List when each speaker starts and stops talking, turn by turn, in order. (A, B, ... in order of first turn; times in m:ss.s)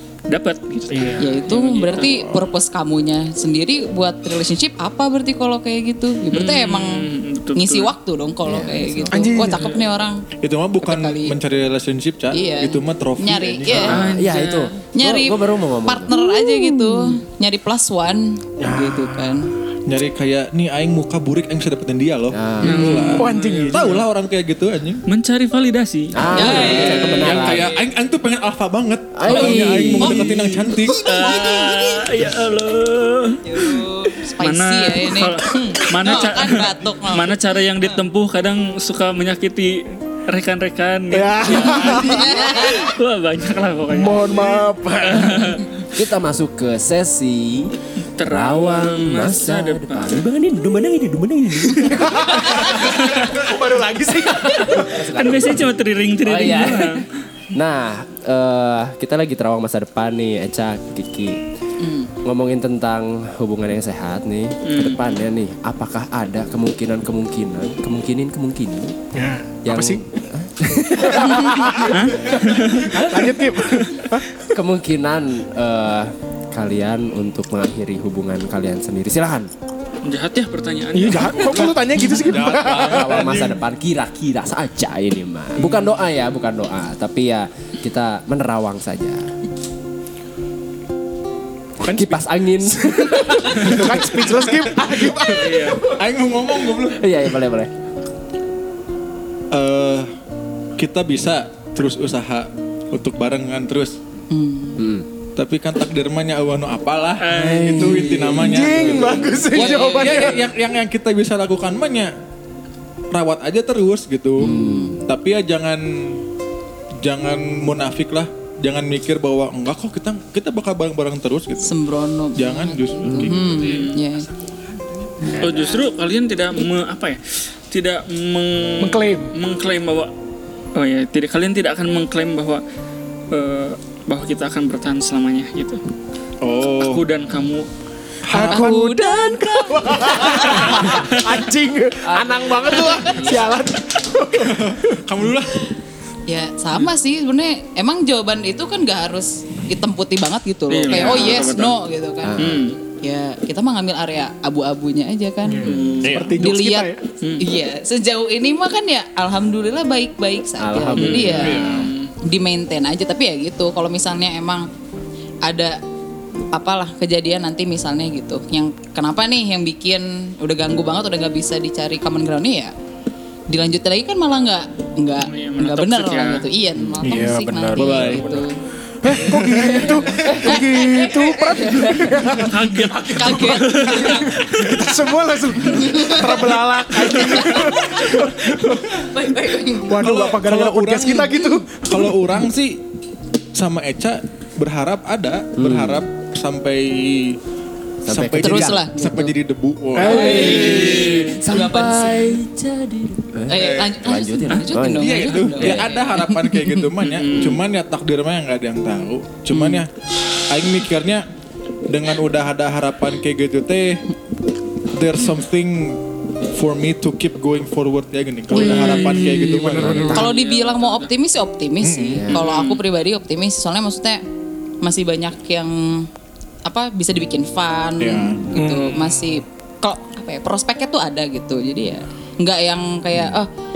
0:00.3-0:02.1 A
0:00.9-0:01.3 B
0:01.2-0:07.0 C
0:01.9-0:02.5 D
0:06.3-0:07.9 A
0:07.6-0:10.3 C
0:08.5-0:09.4 E
0:09.1-0:09.8 B
0:10.4-0:14.0 D
0:10.8-0:11.4 C
0:12.3-0:14.0 C
0:13.7-0:16.8 E
0:13.8-0:14.7 A
0:15.0-0:19.5 C
0:18.6-0:19.4 B
0:19.9-0:25.0 D
0:22.3-0:23.1 E
0:22.6-0:24.0 A
0:22.7-0:23.2 C
0:23.2-0:24.0 B
0:25.1-0:27.5 A
0:26.1-0:27.7 E
0:26.4-0:27.4 C
0:26.6-0:31.1 D
0:29.2-0:31.8 E
0:30.0-0:30.4 C
0:31.0-0:33.4 A
0:33.4-0:37.9 C
0:34.4-0:45.7 A
0:41.1-0:42.9 B
0:41.5-0:42.9 C
0:43.9-0:45.6 B
0:45.9-0:47.7 E
0:48.0-0:50.2 A
0:48.2-0:52.4 E
0:51.9-0:54.9 B
0:52.7-0:53.3 A
0:54.2-0:55.7 E
0:54.7-0:57.1 A
0:56.2-1:01.4 E
1:01.8-1:02.1 C
1:02.2-1:09.0 E
1:04.6-1:05.1 A
1:09.1-1:10.0 B
1:09.7-1:11.9 E
1:11.0-1:12.1 B
1:11.9-1:13.0 A
1:12.9-1:14.5 B
1:14.5-1:19.5 E
1:20.0-1:21.7 A
1:20.9-1:23.2 B
1:21.4-1:23.6 D
1:22.5-1:29.3 E
1:31.8-1:35.9 B
1:31.8-1:34.5 E
1:35.3-1:35.8 A
1:35.8-1:37.3 D
1:36.9-1:37.7 E
1:39.5-1:40.1 D
1:40.8-1:44.0 D
1:44.3-1:44.8 C
1:44.8-1:45.1 E
1:45.4-1:52.1 D
1:47.2-1:50.3 A
1:47.3-1:49.4 E
1:48.4-1:50.4 B
1:53.1-1:56.2 D
1:54.4-1:55.0 C
1:54.4-1:55.1 E
1:57.0-2:01.8 D
2:01.6-2:04.3 C
2:02.4-2:05.8 D
2:03.1-2:03.3 E
2:03.6-2:04.0 A
2:05.2-2:05.6 C
2:05.4-2:10.1 A
2:08.8-2:09.3 B
2:10.8-2:12.6 A
2:13.3-2:15.8 A
2:16.4-2:17.0 D
2:16.8-2:17.7 A
2:18.2-2:19.4 D
2:18.3-2:25.0 B
2:18.4-2:20.5 C
2:20.4-2:21.2 A
2:22.0-2:23.6 E
2:24.4-2:25.6 D
2:26.3-2:32.4 C
2:30.7-2:31.8 A
2:32.2-2:32.6 E
2:32.4-2:32.8 A
2:33.0-2:35.7 C
2:35.4-2:37.0 B
2:35.6-2:36.2 A
2:36.0-2:36.4 D
2:36.4-2:44.7 C
2:40.6-2:41.6 E
2:41.0-2:42.1 A
2:41.3-2:41.9 D
2:45.4-2:45.8 C
2:46.5-2:52.7 C
2:53.5-2:58.6 C
2:55.2-2:56.4 A
2:56.8-2:58.1 E
2:57.0-2:58.5 D
2:59.0-3:09.0 B
2:59.2-3:02.1 C
2:59.4-3:02.2 E
3:02.2-3:04.8 A
3:03.0-3:04.4 C
3:05.6-3:06.5 C
3:07.0-3:07.5 A
3:07.1-3:08.2 C
3:08.9-3:10.1 C
3:09.8-3:12.1 B
3:10.0-3:12.8 D
3:13.5-3:17.4 D
3:15.6-3:16.0 E
3:18.0-3:18.8 E
3:18.1-3:21.3 D
3:18.4-3:19.4 C
3:20.0-3:21.3 B
3:20.0-3:22.4 C
3:20.0-3:26.0 E
3:20.1-3:21.4 A
3:23.5-3:26.9 C
3:23.5-3:24.0 D
3:25.0-3:29.9 D
3:27.0-3:27.6 A
3:29.5-3:29.8 C
3:30.5-3:31.3 D
3:31.9-3:34.0 D
3:34.9-3:40.2 D
3:38.6-3:40.2 B
3:38.6-3:39.4 A
3:39.7-3:40.3 E
3:40.1-3:41.1 A
3:40.1-3:44.2 C
3:41.8-3:42.3 D
3:42.1-3:42.4 E
3:42.3-3:42.8 A
3:44.8-3:46.1 C
3:46.6-3:53.5 C
3:48.0-3:48.5 D
3:48.5-3:49.4 B